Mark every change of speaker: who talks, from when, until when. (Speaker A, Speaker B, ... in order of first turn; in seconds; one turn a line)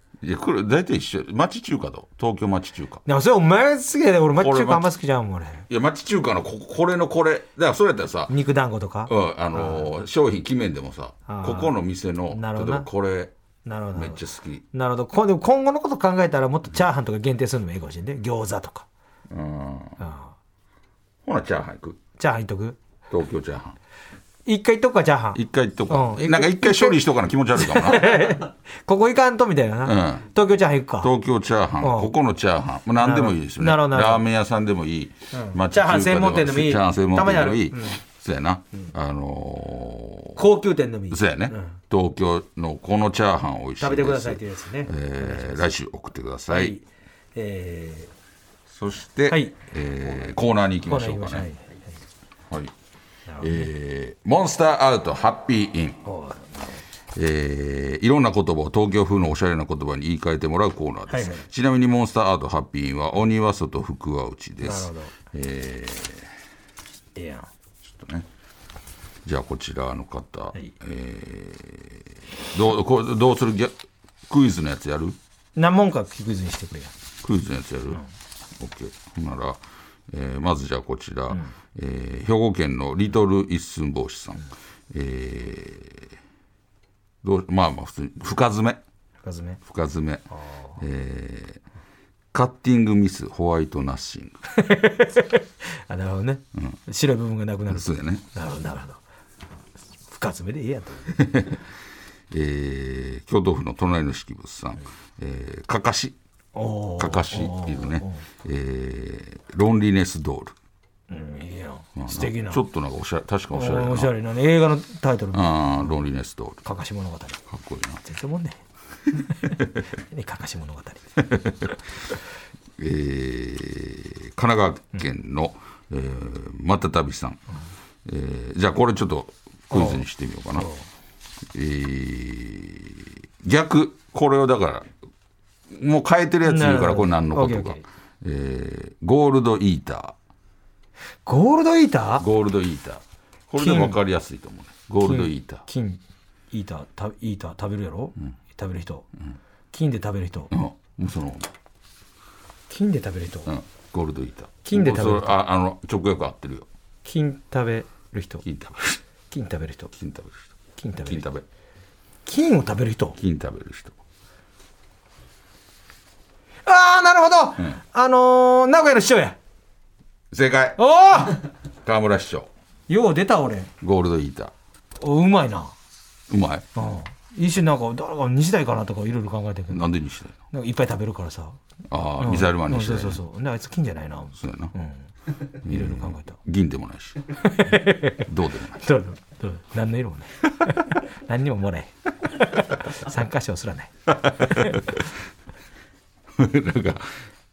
Speaker A: 0.2-3.0
Speaker B: 3.0-5.7
Speaker A: 4.3-4.9
Speaker A: 5.7-8.3
Speaker B: 8.3-9.9
Speaker A: 9.1-13.3
Speaker B: 11.3-11.7
Speaker B: 12.3-12.9
Speaker B: 13.7-18.9
Speaker A: 13.9-14.6
Speaker A: 19.3-20.0
Speaker B: 20.0-20.3
Speaker A: 21.2-22.0
Speaker B: 22.2-22.8
Speaker A: 23.1-23.8
Speaker B: 24.4-27.0
Speaker A: 25.3-28.3
Speaker B: 27.6-31.1
Speaker A: 29.8-30.3
Speaker A: 31.0-40.4
Speaker B: 31.8-32.1
Speaker B: 33.0-34.2
Speaker B: 35.3-38.0
Speaker B: 40.4-41.8
Speaker A: 41.1-46.8
Speaker B: 43.8-45.7
Speaker B: 46.5-46.8
Speaker B: 47.3-48.1
Speaker A: 48.7-51.5
Speaker B: 50.9-51.7
Speaker B: 53.3-53.7
Speaker A: 53.4-56.0
Speaker B: 56.0-56.6
Speaker A: 57.1-66.3
Speaker B: 61.1-61.4
Speaker B: 64.6-65.1
Speaker B: 67.1-67.5
Speaker A: 67.8-68.3
Speaker A: 69.2-75.2
Speaker B: 75.5-76.9
Speaker A: 77.2-78.0
Speaker A: 78.6-86.0
Speaker A: 87.2-88.8
Speaker B: 89.2-89.6
Speaker A: 89.6-91.6
Speaker A: 92.3-94.4
Speaker B: 94.5-99.0
Speaker A: 97.7-98.2
Speaker B: 100.1-101.3
Speaker A: 101.2-101.6
Speaker A: 102.3-106.2
Speaker B: 106.5-108.2
Speaker A: 107.0-110.5
Speaker B: 111.1-112.6
Speaker A: 112.0-114.1
Speaker B: 113.5-115.7
Speaker A: 115.3-116.6
Speaker B: 116.6-117.4
Speaker A: 117.5-118.0
Speaker B: 118.0-118.6
Speaker B: 119.2-121.1
Speaker A: 121.2-121.7
Speaker A: 122.8-127.4
Speaker A: 128.1-130.7
Speaker B: 129.7-130.0
Speaker B: 130.6-130.8
Speaker A: 131.5-134.9
Speaker A: 135.7-140.1
Speaker B: 136.4-137.8
Speaker B: 141.2-142.2
Speaker A: 142.2-145.6
Speaker B: 143.6-144.0
Speaker B: 145.0-146.0
Speaker B: 146.5-149.1
Speaker B: 149.7-150.5
Speaker A: 150.5-151.5
Speaker B: 152.7-153.5
Speaker A: 153.4-156.7
Speaker B: 154.6-155.4
Speaker B: 157.0-158.4
Speaker A: 158.4-159.0
Speaker B: 159.3-159.9
Speaker A: 159.9-160.5
Speaker B: 160.8-161.2
Speaker A: 161.1-161.4
Speaker B: 162.2-163.2
Speaker A: 163.2-164.0
Speaker B: 166.7-169.4
Speaker A: 170.3-170.8
Speaker B: 170.8-171.4
Speaker A: 171.8-172.5
Speaker B: 172.9-173.7
Speaker A: 173.8-174.5
Speaker B: 175.0-175.7
Speaker A: 176.3-176.7
Speaker B: 176.8-179.9
Speaker A: 179.7-180.4
Speaker B: 180.5-181.6
Speaker A: 181.9-183.2
Speaker B: 182.2-185.0
Speaker A: 184.4-184.7
Speaker A: 185.6-187.2
Speaker B: 185.6-186.4
Speaker B: 187.4-188.3
Speaker A: 188.2-188.9
Speaker B: 188.8-194.8
Speaker A: 194.5-195.0
Speaker A: 196.3-197.1